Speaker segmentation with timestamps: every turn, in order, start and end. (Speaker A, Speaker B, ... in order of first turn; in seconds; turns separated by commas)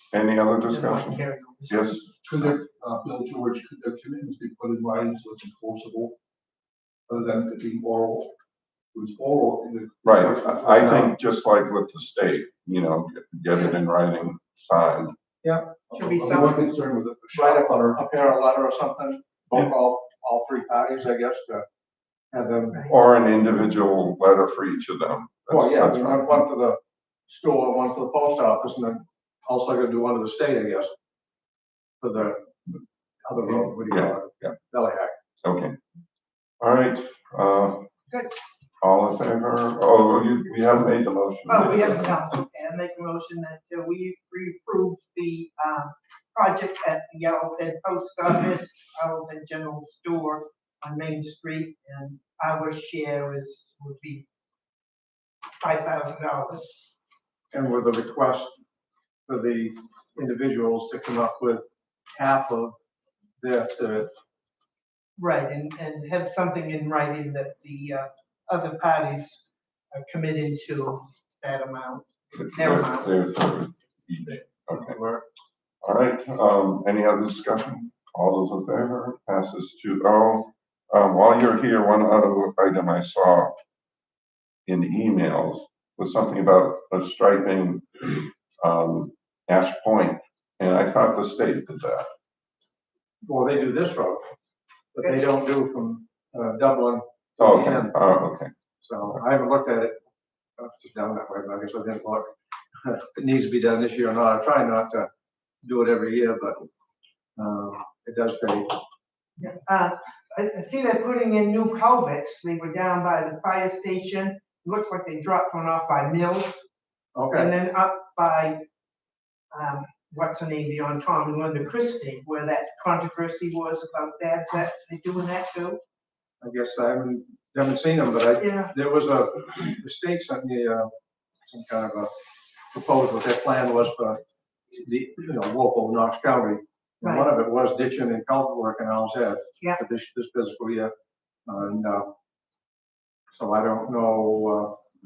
Speaker A: 0.1-2.6, Speaker B: 0.7-1.9, Speaker C: 2.2-6.2, Speaker C: 7.1-8.3, Speaker C: 8.9-11.1, Speaker A: 10.0-15.2, Speaker D: 15.4-15.7, Speaker C: 15.9-18.0, Speaker B: 15.9-16.6, Speaker D: 17.3-21.7, Speaker D: 22.3-22.9, Speaker A: 22.9-26.4, Speaker D: 25.5-30.9, Speaker D: 32.0-35.1, Speaker A: 33.6-34.5, Speaker A: 35.4-35.8, Speaker A: 36.6-37.9, Speaker A: 38.8-42.2, Speaker B: 41.5-54.2, Speaker B: 55.6-56.9, Speaker D: 57.5-58.6, Speaker D: 59.3-62.8, Speaker D: 63.4-64.1, Speaker B: 65.2-73.1, Speaker A: 72.3-75.0, Speaker D: 74.9-75.2, Speaker A: 75.8-83.5, Speaker A: 84.7-92.1, Speaker D: 93.3-94.3, Speaker D: 94.9-97.9, Speaker A: 97.4-98.5, Speaker D: 98.8-100.0, Speaker D: 100.6-102.3, Speaker D: 102.8-105.1, Speaker D: 105.6-106.7, Speaker D: 107.4-108.8, Speaker B: 109.4-116.6, Speaker D: 117.2-117.5, Speaker B: 117.3-118.6, Speaker B: 119.5-125.8, Speaker D: 126.4-130.9, Speaker B: 128.4-128.7, Speaker D: 131.5-132.1, Speaker D: 132.7-140.9, Speaker B: 137.0-137.3, Speaker D: 141.5-142.1, Speaker D: 143.3-144.8